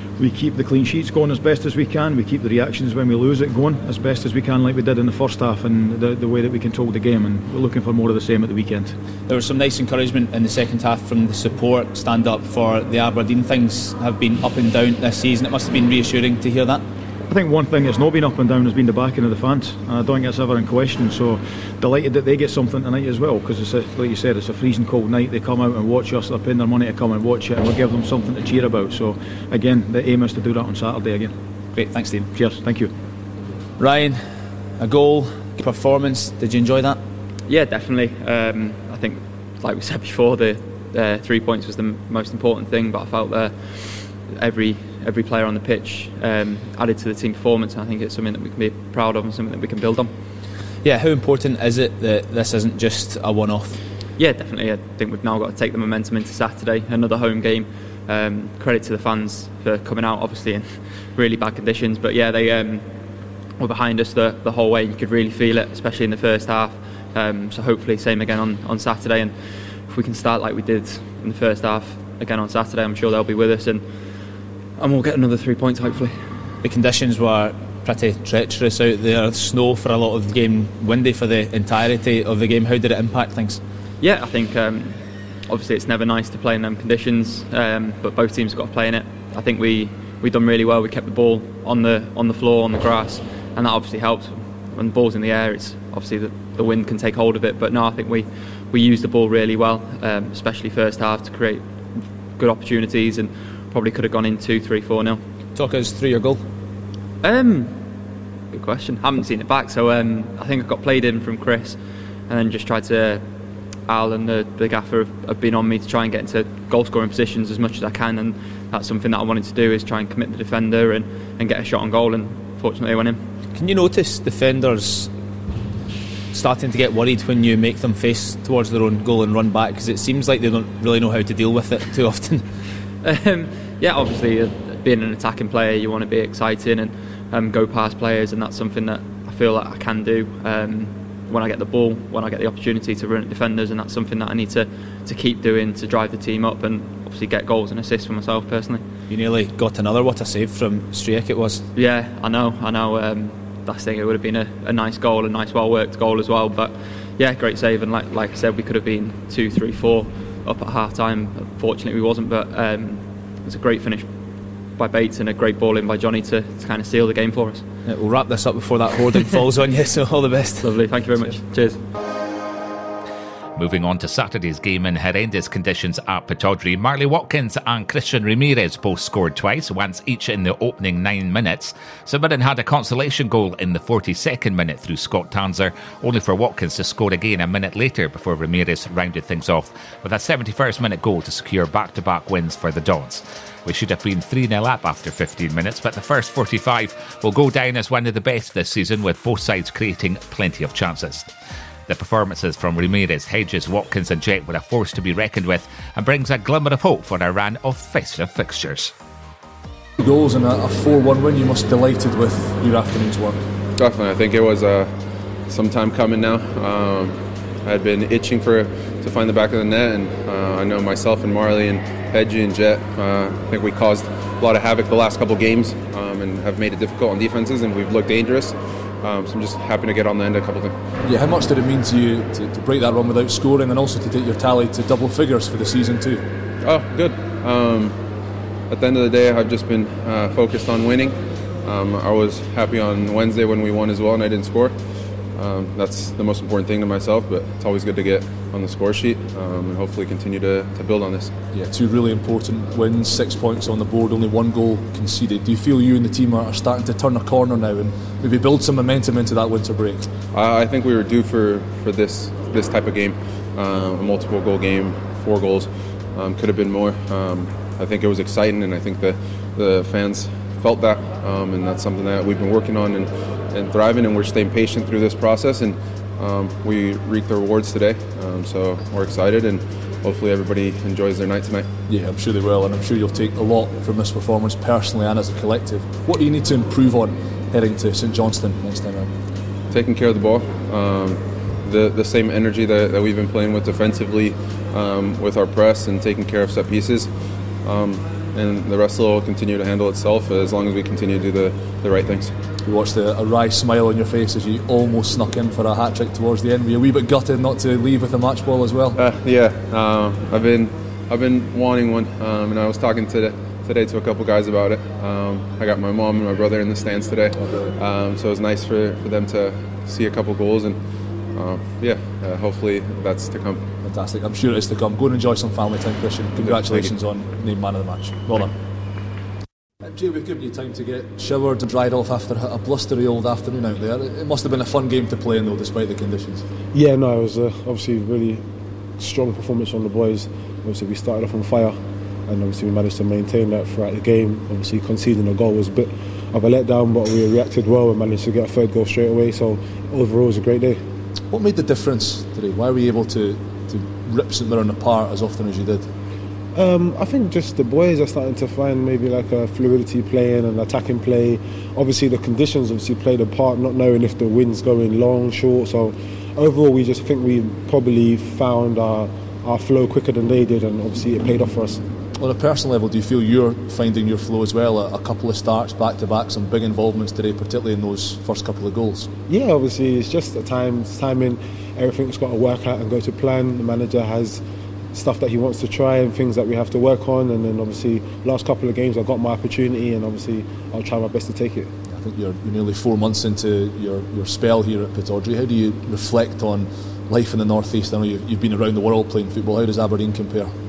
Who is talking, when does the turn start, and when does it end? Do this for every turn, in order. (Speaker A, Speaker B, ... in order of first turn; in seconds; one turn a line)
Speaker A: 0.2-9.0
Speaker B: 9.3-16.8
Speaker A: 17.3-31.4
Speaker B: 31.7-32.3
Speaker A: 32.3-32.9
Speaker B: 33.8-37.0
Speaker C: 37.5-50.1
Speaker B: 50.8-53.8
Speaker C: 54.2-76.3
Speaker B: 76.6-83.6
Speaker C: 84.0-105.2
Speaker B: 105.5-106.4
Speaker C: 107.2-113.3
Speaker C: 113.8-123.3
Speaker B: 123.5-125.1
Speaker B: 126.3-132.4
Speaker C: 133.0-148.8
Speaker B: 149.1-151.7
Speaker C: 151.7-167.7
Speaker B: 167.8-171.4
Speaker C: 170.6-171.8
Speaker D: 173.6-201.3
Speaker D: 201.9-208.9
Speaker E: 210.0-213.5
Speaker F: 213.8-214.9
Speaker F: 215.4-230.7
Speaker E: 231.0-236.2
Speaker F: 236.6-238.0
Speaker F: 238.7-251.3
Speaker E: 251.5-260.1
Speaker F: 260.3-281.7
Speaker E: 281.9-289.1
Speaker F: 289.7-302.3
Speaker E: 302.6-309.0
Speaker F: 308.9-323.7
Speaker E: 317.4-317.7
Speaker E: 323.8-328.5
Speaker F: 326.4-326.9
Speaker E: 329.8-336.4
Speaker G: 336.7-338.4
Speaker G: 339.0-350.9
Speaker E: 351.3-355.9
Speaker G: 356.5-371.8
Speaker E: 372.1-379.1
Speaker G: 379.3-384.4
Speaker G: 384.9-391.7
Speaker E: 391.8-400.5